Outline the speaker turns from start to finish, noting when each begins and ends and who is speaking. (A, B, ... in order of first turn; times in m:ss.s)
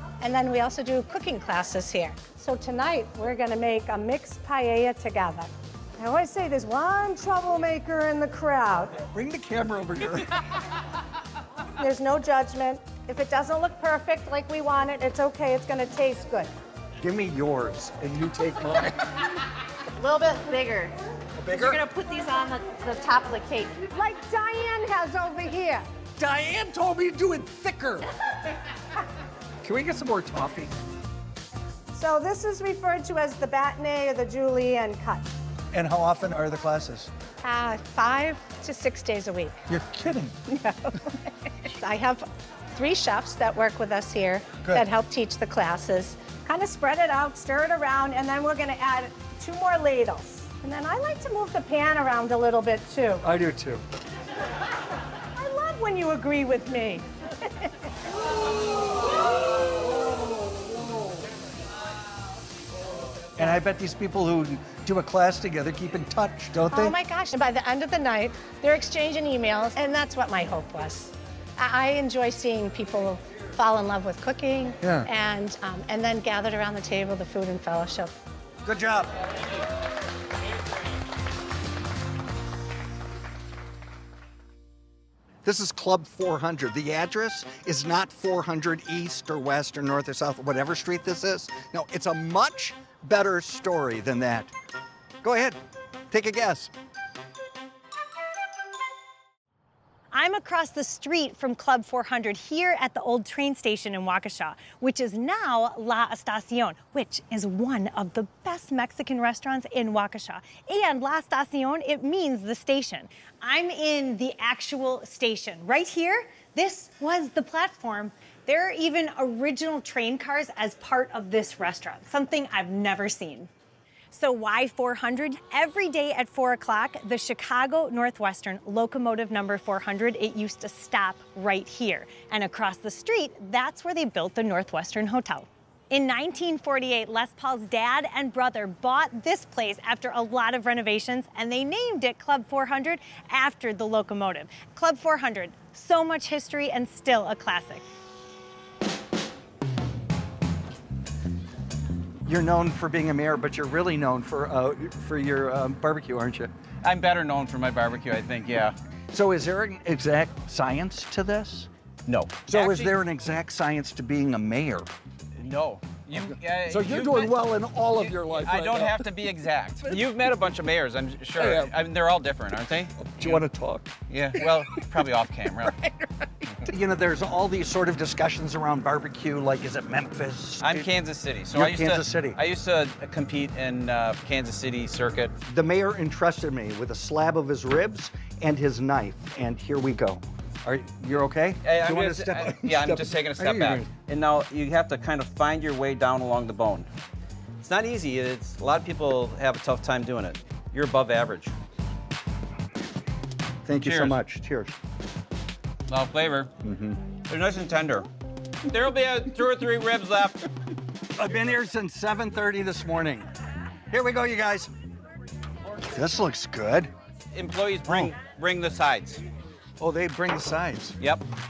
0:00.2-0:09.0 A
0:09.1-0:10.3 B
0:11.8-0:16.5 A
0:17.0-0:19.1 B
0:20.0-0:20.9 A
0:21.4-0:21.8 B
0:21.5-0:25.9 A
0:26.2-0:28.1 B
0:29.6-0:30.7 B
0:31.9-0:35.3 A
0:35.7-0:37.1 B
0:37.4-0:39.6 A
0:39.7-0:40.4 B
0:40.5-0:41.2 A
0:41.7-0:53.2 A
0:53.2-0:53.8 B
0:55.3-0:57.0 A
1:03.4-1:06.9 B
1:06.7-1:18.1 A
1:14.8-1:15.1 B
1:18.6-1:19.1 B
1:25.4-1:34.5 B
1:35.2-1:35.6 B
1:36.1-1:36.7 B
1:40.1-2:03.5 C
2:04.1-2:27.8 C
2:32.2-2:36.5 B
2:36.8-2:38.7 D
2:39.1-2:41.7 B
2:42.1-2:42.9 D
2:42.5-2:44.9 B
2:45.4-2:53.4 D
2:46.1-2:49.1 B
2:51.4-2:51.8 B
2:53.0-2:54.8 B
2:54.1-2:55.8 D
2:56.6-3:00.9 B
3:00.6-3:05.3 D
3:01.5-3:02.4 B
3:05.4-3:13.9 B
3:11.6-3:16.9 D
3:17.6-3:21.5 D
3:23.6-3:24.7 B
3:23.8-3:24.2 D
3:25.9-3:26.5 D
3:26.6-3:26.9 B
3:27.3-3:28.1 D
3:28.7-3:30.4 D
3:31.2-3:33.3 B
3:33.9-3:34.7 B
3:35.8-3:36.9 B
3:37.3-3:39.2 D
3:37.8-3:38.1 B
3:39.8-3:41.0 B